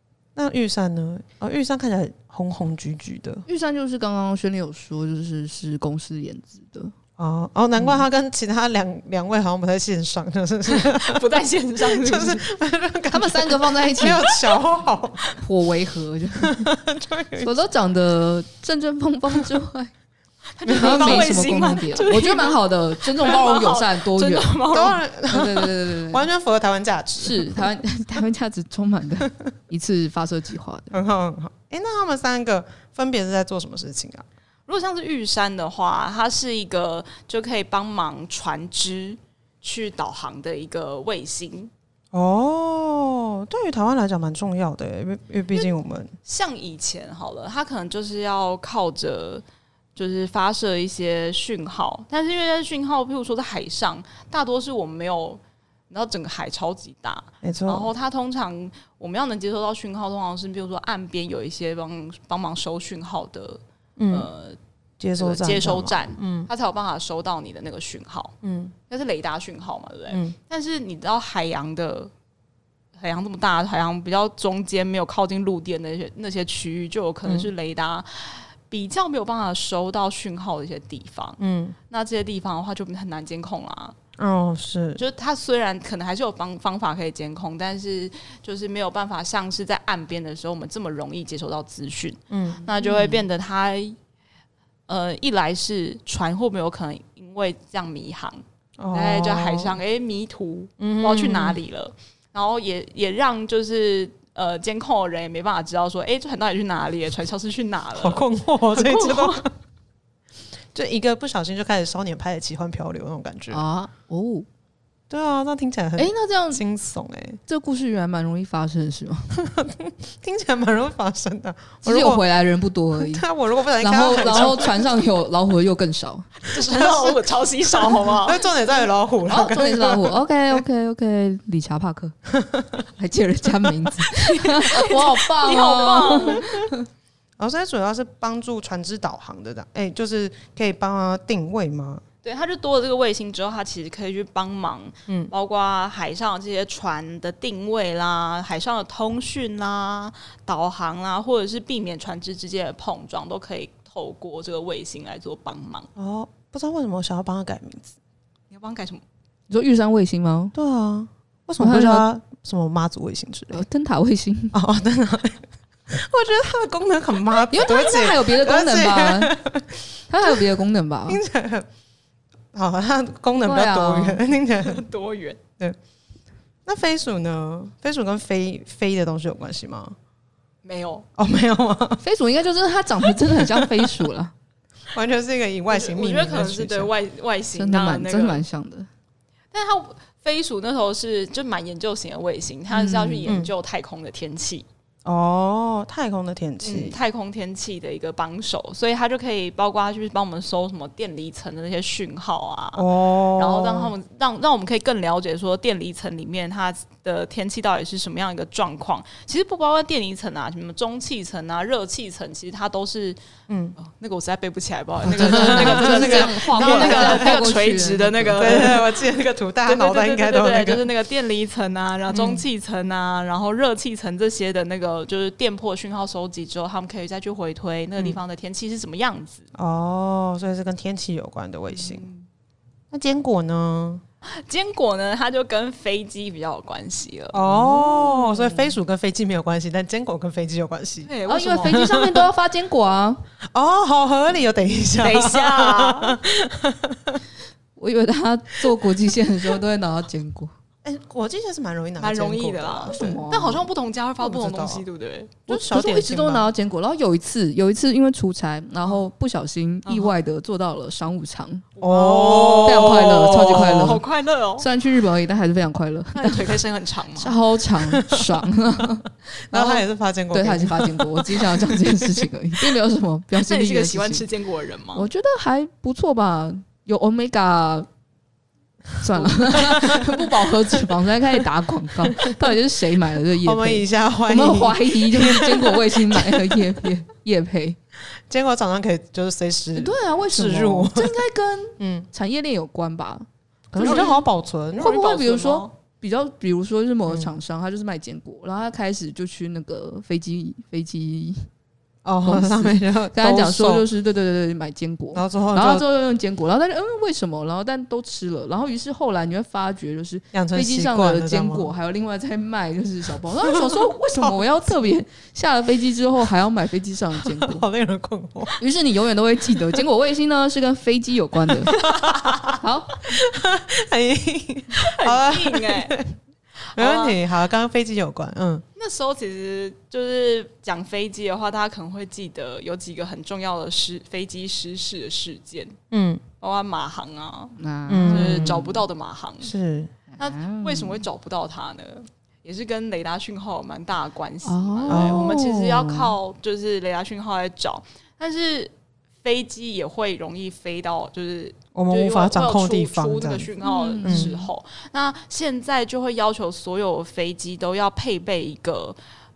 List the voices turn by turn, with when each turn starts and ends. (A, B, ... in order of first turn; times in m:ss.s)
0:00.4-0:03.4 A
0:03.5-0:06.9 B
0:07.2-0:11.2 A
0:07.8-0:08.0 B
0:10.7-0:12.5 C
0:11.8-0:15.2 A
0:13.1-0:14.3 B
0:15.4-0:16.7 B
0:16.4-0:17.6 A
0:17.4-0:19.9 B
0:20.6-0:25.0 C
0:20.6-0:21.4 A
0:20.8-0:24.6 B
0:24.7-0:27.7 A
0:25.3-0:26.3 B
0:27.2-0:31.0 B
0:30.9-0:34.3 A
0:34.7-0:41.7 C
0:42.1-0:46.1 A
0:46.3-0:49.4 C
0:50.0-1:04.6 C
0:57.4-0:57.9 A
1:04.0-1:04.3 A
1:05.0-1:06.5 A
1:05.2-1:08.3 C
1:08.4-1:08.7 A
1:08.9-1:12.1 C
1:10.1-1:10.4 A
1:13.0-1:24.0 C
1:17.2-1:17.5 A
1:21.4-1:21.8 A
1:24.2-1:25.0 A
1:25.0-1:34.0 C
1:32.3-1:32.7 A
1:32.7-1:33.2 B
1:34.9-1:49.5 C
1:38.8-1:39.8 A
1:40.8-1:41.6 A
1:48.0-1:49.5 A
1:50.7-1:53.6 A
1:53.5-1:54.5 B
1:55.1-1:57.4 A
1:56.0-1:56.6 B
1:57.5-1:59.4 B
1:59.4-2:02.2 A
2:01.8-2:03.2 B
2:03.0-2:04.8 A
2:03.8-2:06.3 B
2:06.5-2:08.5 C
2:06.6-2:10.6 A
2:09.3-2:12.2 B
2:12.3-2:12.8 A
2:13.0-2:16.8 B
2:14.4-2:16.5 C
2:17.4-2:22.0 A
2:22.2-2:35.9 C
2:36.0-2:38.0 A
2:38.5-2:39.0 C
2:39.5-2:40.5 B
2:40.6-2:43.6 A
2:41.6-2:42.1 B
2:43.5-2:44.6 B
2:44.5-2:50.5 A
2:47.5-2:49.3 B
2:50.1-2:51.2 B
2:51.1-2:51.7 A
2:52.5-2:54.8 A
2:53.4-2:54.2 B
2:54.6-2:55.4 C
2:56.7-3:00.0 A
3:00.6-3:01.1 C
3:01.2-3:02.0 A
3:02.0-3:04.3 B
3:03.4-3:04.0 A
3:04.9-3:06.9 A
3:05.7-3:08.4 C
3:07.6-3:08.9 B
3:09.5-3:14.7 C
3:12.7-3:13.3 B
3:13.2-3:13.5 A
3:15.0-3:17.0 A
3:16.6-3:33.2 C
3:22.7-3:23.9 A
3:33.5-3:33.8 A
3:33.8-3:49.4 C
3:35.1-3:37.4 A
3:35.1-3:38.7 B
3:38.4-3:40.9 A
3:42.1-3:42.4 A
3:49.6-3:52.1 A
3:51.7-3:52.3 C
3:52.9-3:54.0 A
3:54.3-3:57.8 C
3:57.3-4:01.1 A
3:57.8-3:58.7 B
4:01.1-4:01.9 C
4:01.3-4:03.2 B
4:01.6-4:02.2 A
4:03.5-4:07.2 A
4:05.0-4:06.2 C
4:07.8-4:10.5 B
4:10.8-4:13.2 A
4:12.0-4:15.4 C
4:12.9-4:13.6 B
4:14.2-4:14.8 A
4:15.5-4:16.5 A
4:15.5-4:21.6 B
4:19.9-4:20.2 C
4:21.8-4:24.7 C
4:21.8-4:23.6 A
4:22.6-4:24.0 B
4:24.6-4:26.6 B
4:26.2-4:27.4 C
4:27.2-4:34.3 B
4:27.8-4:28.4 A
4:29.5-4:31.8 A
4:33.4-4:35.1 C
4:35.0-4:37.9 B
4:39.0-4:47.8 B
4:39.5-4:40.2 A
4:42.2-4:42.5 A
4:43.4-4:46.6 A
4:48.3-4:51.2 A
4:49.8-4:54.2 B
4:51.8-4:52.1 A
4:53.7-4:55.0 A
4:53.8-4:54.2 C
4:54.8-5:01.5 B
4:54.8-4:55.7 C
4:57.1-4:57.4 A
5:02.0-5:03.9 A
5:02.2-5:17.6 B
5:05.1-5:05.8 A
5:10.3-5:11.7 A
5:13.4-5:14.7 A
5:17.2-5:18.6 A
5:18.6-5:21.8 B
5:21.7-5:22.6 A
5:21.8-5:22.4 C
5:22.6-5:23.1 B
5:23.1-5:26.1 A
5:24.8-5:26.0 C
5:26.8-5:27.2 C
5:26.8-5:28.6 A
5:28.8-5:35.8 C
5:35.9-5:36.2 A
5:36.4-5:37.6 C
5:37.6-5:38.8 B
5:37.9-5:38.7 A
5:38.1-5:39.5 C
5:39.4-5:39.9 A
5:40.2-5:41.0 B
5:40.2-5:48.7 C
5:44.4-5:45.4 B
5:44.9-5:46.0 A
5:49.2-5:59.0 C
5:51.8-5:53.5 A
5:53.6-5:54.5 B
5:54.0-5:54.3 A